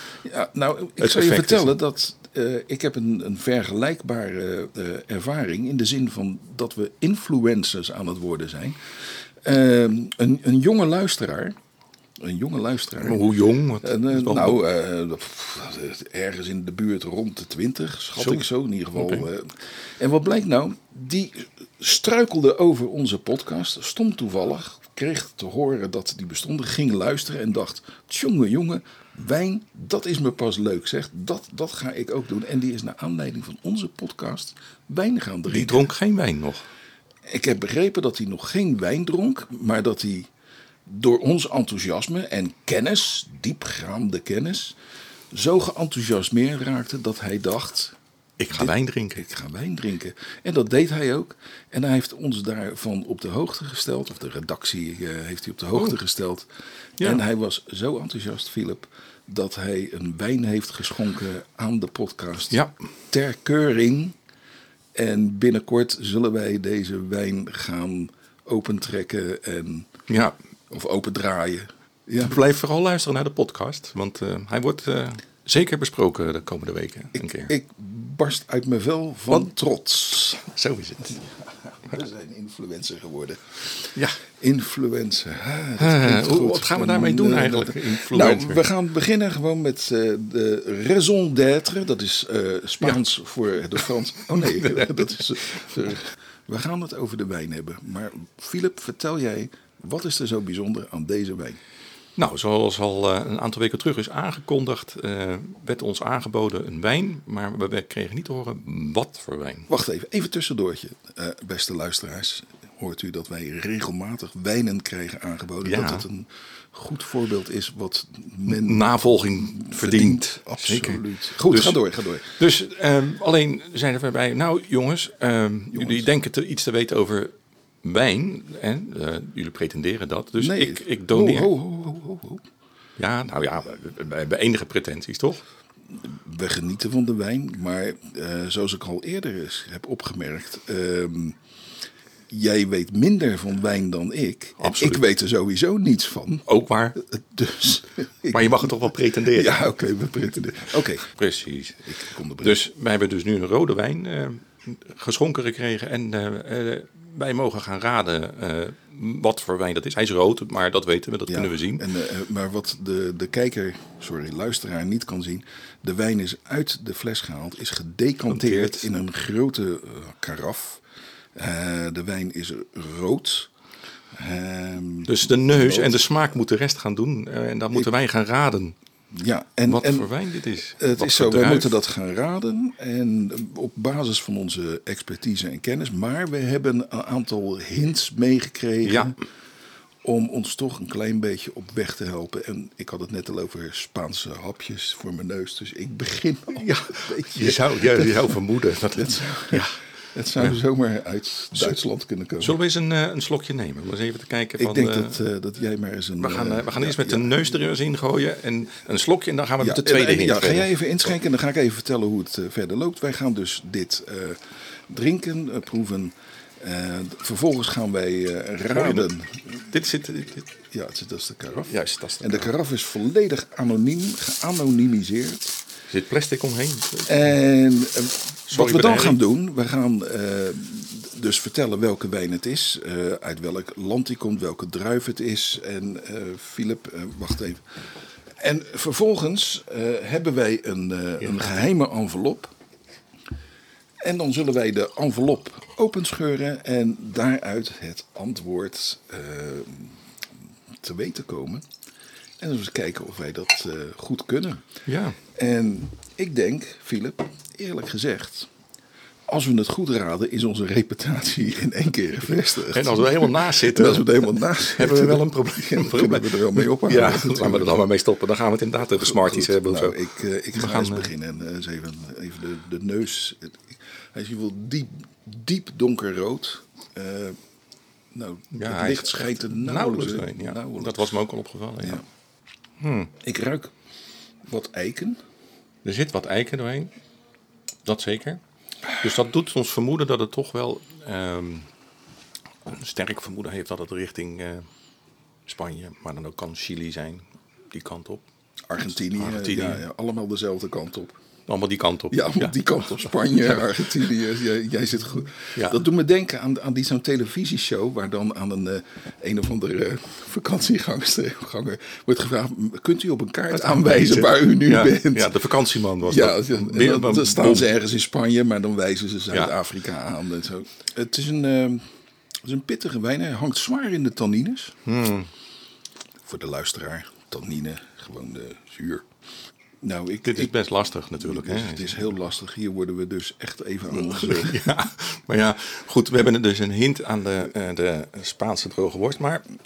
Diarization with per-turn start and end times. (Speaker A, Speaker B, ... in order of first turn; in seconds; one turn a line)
Speaker A: 0.2-8.8
Speaker B: 1.0-1.8
Speaker A: 9.4-11.6
Speaker A: 12.2-13.2
Speaker B: 13.0-14.6
Speaker A: 13.8-35.9
Speaker B: 18.2-19.2
Speaker B: 35.5-36.7
Speaker A: 37.2-40.3
Speaker A: 40.9-44.8
Speaker A: 45.3-48.0
Speaker B: 48.4-49.2
Speaker A: 48.5-56.5
Speaker A: 57.0-62.6
Speaker A: 63.1-64.2
Speaker A: 64.9-69.9
Speaker B: 70.1-70.4
Speaker A: 70.7-72.4
Speaker B: 72.2-77.5
Speaker A: 77.2-80.3
Speaker B: 80.1-81.3
Speaker A: 81.2-83.6
Speaker A: 84.4-101.6
Speaker B: 85.8-88.7
Speaker B: 93.9-95.7
Speaker B: 102.2-109.7
Speaker A: 109.7-122.4
Speaker B: 115.6-116.0
Speaker B: 118.5-131.5
Speaker A: 125.7-126.1
Speaker A: 130.4-132.4
Speaker B: 133.0-135.4
Speaker A: 135.9-141.4
Speaker A: 142.3-146.4
Speaker B: 144.6-145.0
Speaker B: 146.5-147.0
Speaker A: 147.0-148.8
Speaker B: 148.3-149.6
Speaker A: 149.3-151.1
Speaker B: 151.1-151.8
Speaker A: 151.8-152.6
Speaker B: 152.4-161.8
Speaker A: 161.3-170.8
Speaker B: 168.3-168.8
Speaker A: 171.3-173.5
Speaker A: 174.1-176.0
Speaker B: 175.1-178.8
Speaker A: 179.1-180.1
Speaker B: 179.7-181.8
Speaker A: 180.8-189.2
Speaker B: 188.8-189.1
Speaker A: 190.0-198.4
Speaker B: 196.5-199.8
Speaker A: 198.9-202.6
Speaker B: 202.4-205.2
Speaker A: 204.6-207.4
Speaker B: 206.2-210.8
Speaker A: 209.6-219.6
Speaker B: 218.7-219.1
Speaker B: 219.6-220.4
Speaker A: 220.6-225.6
Speaker B: 221.7-222.5
Speaker B: 225.9-227.2
Speaker A: 227.1-237.6
Speaker B: 228.5-229.2
Speaker A: 238.4-242.5
Speaker B: 241.2-241.5
Speaker A: 244.0-250.0
Speaker A: 250.8-251.7
Speaker A: 252.4-254.6
Speaker B: 254.8-255.2
Speaker A: 255.3-258.5
Speaker A: 259.3-267.8
Speaker B: 262.6-270.0
Speaker A: 269.0-277.4
Speaker B: 270.5-271.1
Speaker A: 278.1-281.2
Speaker B: 278.5-282.0
Speaker B: 282.8-283.1
Speaker A: 283.2-283.7
Speaker A: 284.4-285.2
Speaker B: 285.8-286.9
Speaker B: 287.8-288.4
Speaker B: 289.0-291.7
Speaker B: 292.6-294.7
Speaker B: 295.5-298.2
Speaker A: 298.7-301.2
Speaker B: 299.1-299.8
Speaker B: 301.5-303.7
Speaker A: 302.1-315.3
Speaker B: 305.5-305.8
Speaker B: 313.5-317.7
Speaker A: 316.0-321.8
Speaker A: 322.4-324.8
Speaker B: 324.8-325.3
Speaker A: 326.2-329.1
Speaker A: 329.8-330.5
Speaker B: 330.2-332.1
Speaker A: 331.2-334.6
Speaker B: 333.9-339.4